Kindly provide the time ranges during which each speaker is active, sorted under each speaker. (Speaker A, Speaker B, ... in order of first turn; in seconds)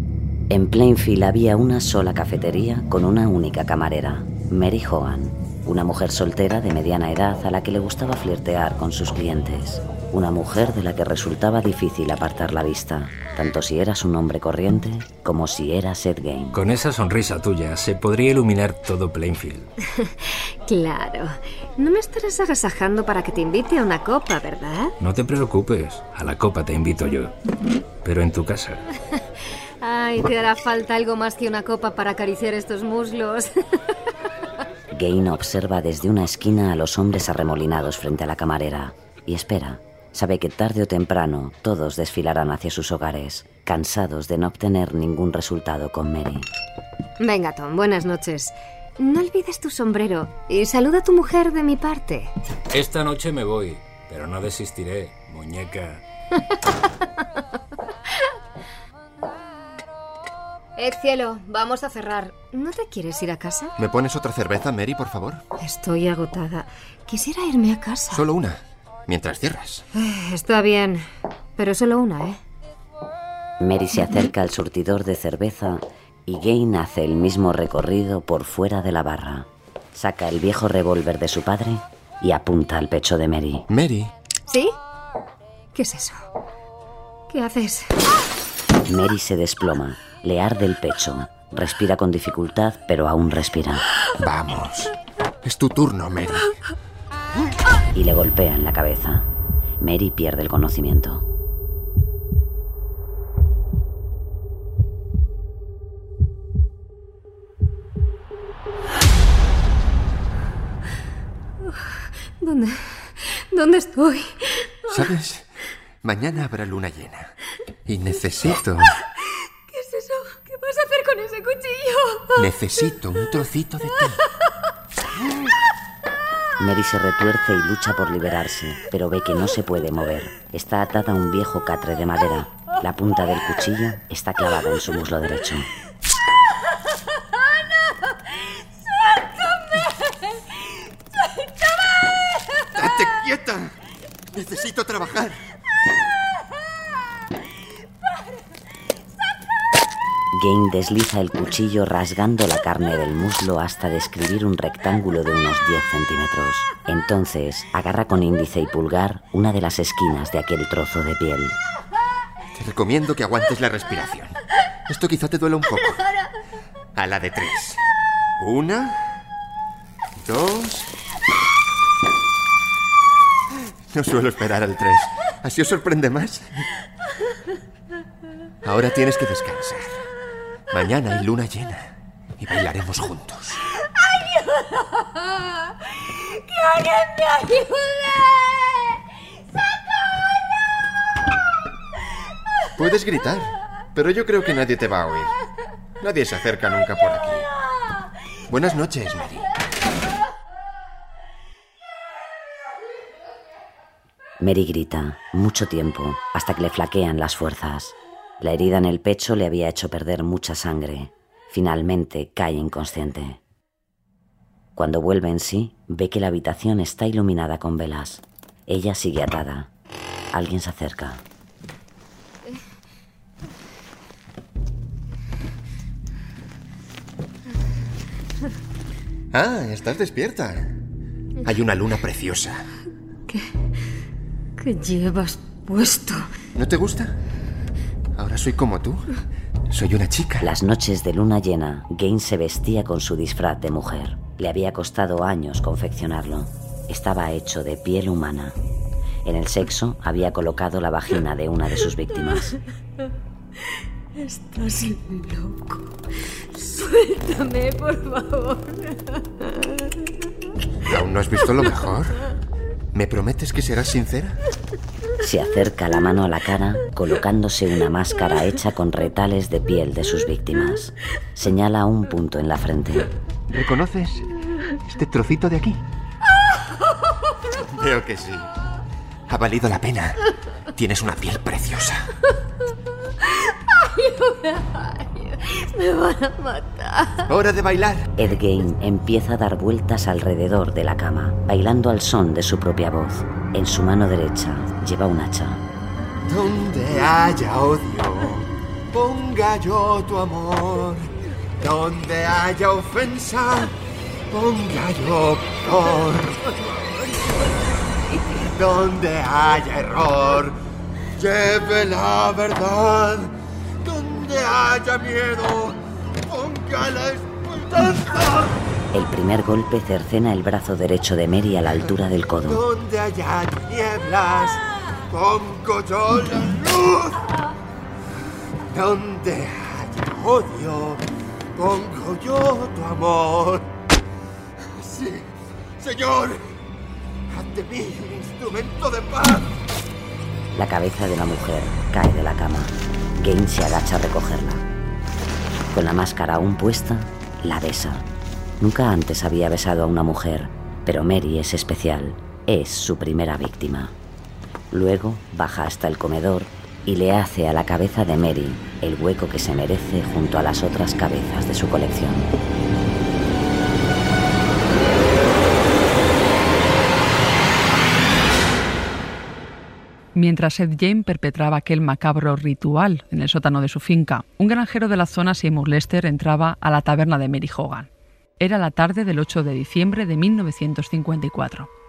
Speaker A: 0.5-16.6, 34.9-46.5, 73.6-83.7, 88.9-93.8, 97.9-99.3, 99.8-101.2, 126.6-135.7, 150.3-161.6, 204.4-213.4, 214.8-219.7, 220.3-221.2, 240.4-248.6, 249.2-252.6, 265.2-273.1, 288.1-295.6, 318.9-322.6, 340.5-344.6, 345.7-348.1, 348.6-353.9, 354.7-362.3
Speaker B: 16.5-19.7, 25.0-27.3, 28.0-28.8, 52.7-56.0
Speaker C: 20.0-24.9, 29.8-33.5, 47.2-52.3, 60.8-63.7, 65.6-68.2, 69.9-72.4, 84.5-84.7, 85.7-86.2, 87.3-88.0, 111.7-115.1, 119.7-122.5, 184.0-188.7, 234.6-236.3, 254.2-256.0, 256.5-259.9, 283.2-287.3
Speaker D: 63.8-65.4, 68.1-69.8, 83.7-84.1, 94.2-96.5, 114.9-115.5, 116.0-117.3, 117.8-119.0, 122.4-124.2, 142.7-143.7, 144.3-145.4, 162.5-164.3, 164.9-166.0, 166.9-167.8, 168.4-169.1, 170.2-170.9, 173.9-176.6, 178.6-180.0, 180.7-183.6, 192.8-195.3, 196.0-197.5, 198.5-199.5, 229.3-230.8, 231.4-232.7, 236.5-237.1, 238.2-239.0, 239.7-240.5, 260.9-262.1, 262.9-264.4, 273.5-274.2, 274.9-275.8, 277.6-278.5, 279.3-280.2, 280.7-282.1, 287.3-288.1, 296.2-303.7, 304.3-306.8, 308.5-310.6, 311.1-318.6, 322.4-327.2, 328.7-331.0, 331.5-333.7, 334.6-336.6, 337.3-339.6
Speaker E: 370.1-377.9, 378.4-381.7